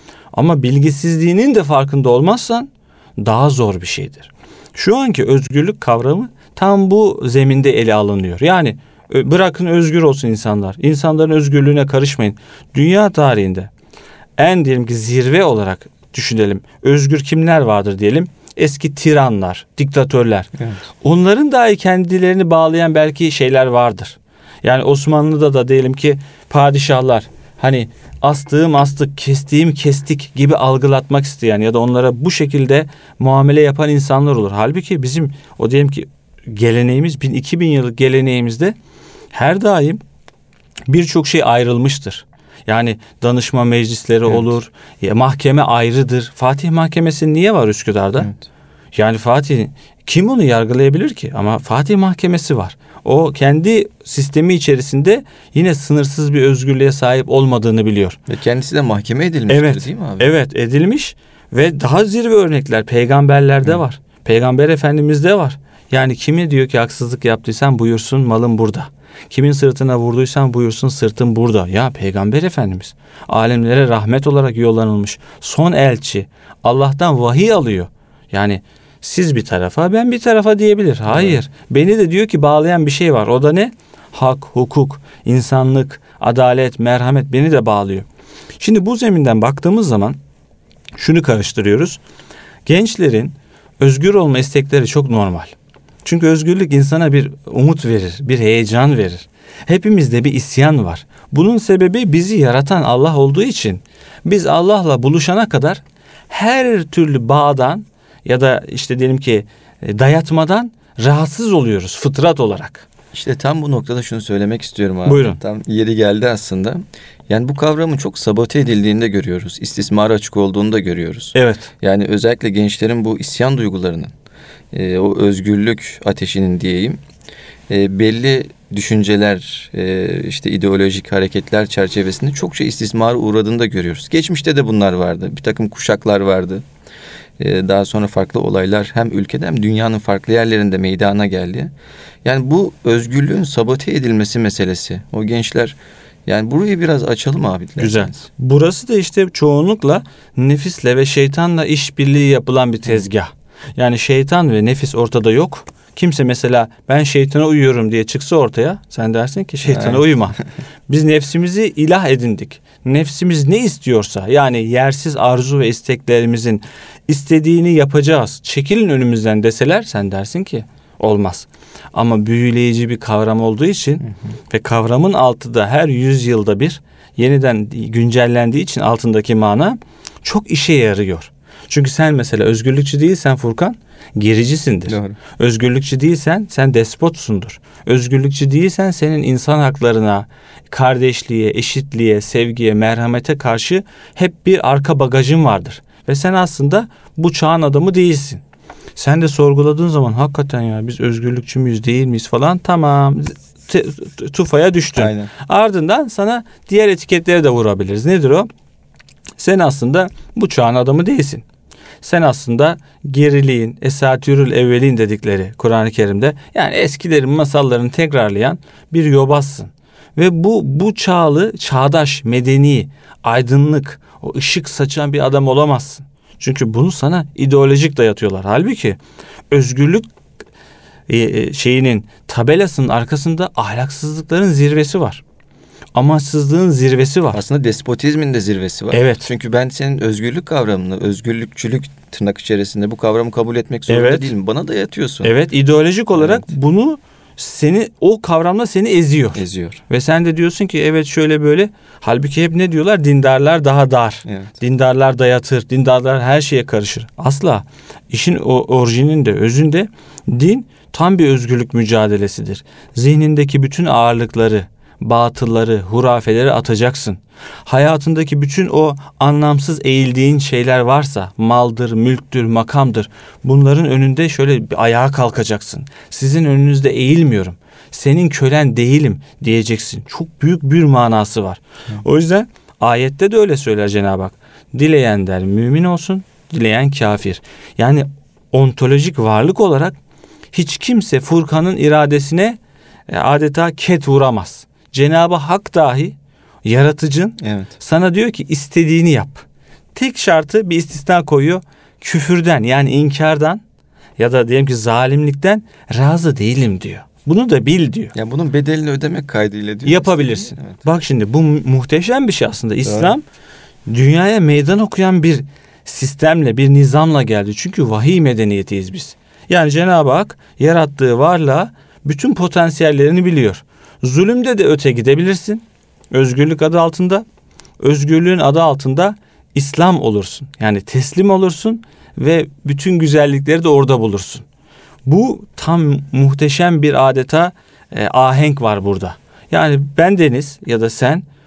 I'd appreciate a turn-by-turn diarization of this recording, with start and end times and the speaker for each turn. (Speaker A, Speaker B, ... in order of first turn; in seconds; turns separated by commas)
Speaker A: 0.3-13.7, Speaker A: 14.4-38.8, Speaker A: 39.3-40.0, Speaker A: 40.9-48.3, Speaker A: 49.0-58.2, Speaker B: 58.3-60.3, Speaker A: 59.5-88.0, Speaker B: 81.1-81.4, Speaker A: 88.6-90.2, Speaker A: 91.0-92.0, Speaker A: 92.7-112.9, Speaker B: 113.1-124.1, Speaker A: 115.0-115.4, Speaker A: 121.3-121.7, Speaker B: 124.7-127.0, Speaker B: 127.7-136.6, Speaker B: 137.4-141.7, Speaker B: 142.2-148.3, Speaker A: 147.8-198.4, Speaker B: 159.7-160.0, Speaker B: 184.9-185.2, Speaker A: 199.0-208.5, Speaker B: 205.0-205.3, Speaker A: 209.4-211.4, Speaker A: 212.0-229.0, Speaker A: 229.5-230.1, Speaker A: 231.1-235.2, Speaker A: 235.9-237.4, Speaker B: 237.3-245.3, Speaker A: 238.9-239.3, Speaker A: 243.9-244.3, Speaker A: 245.2-290.0, Speaker B: 246.2-246.5, Speaker B: 249.3-249.8, Speaker B: 254.2-254.6, Speaker A: 290.5-303.6, Speaker B: 297.4-297.8, Speaker A: 304.2-308.1, Speaker B: 308.1-310.9, Speaker A: 309.9-313.2, Speaker B: 312.8-313.1, Speaker A: 313.9-327.2, Speaker A: 327.8-334.4, Speaker A: 335.0-341.2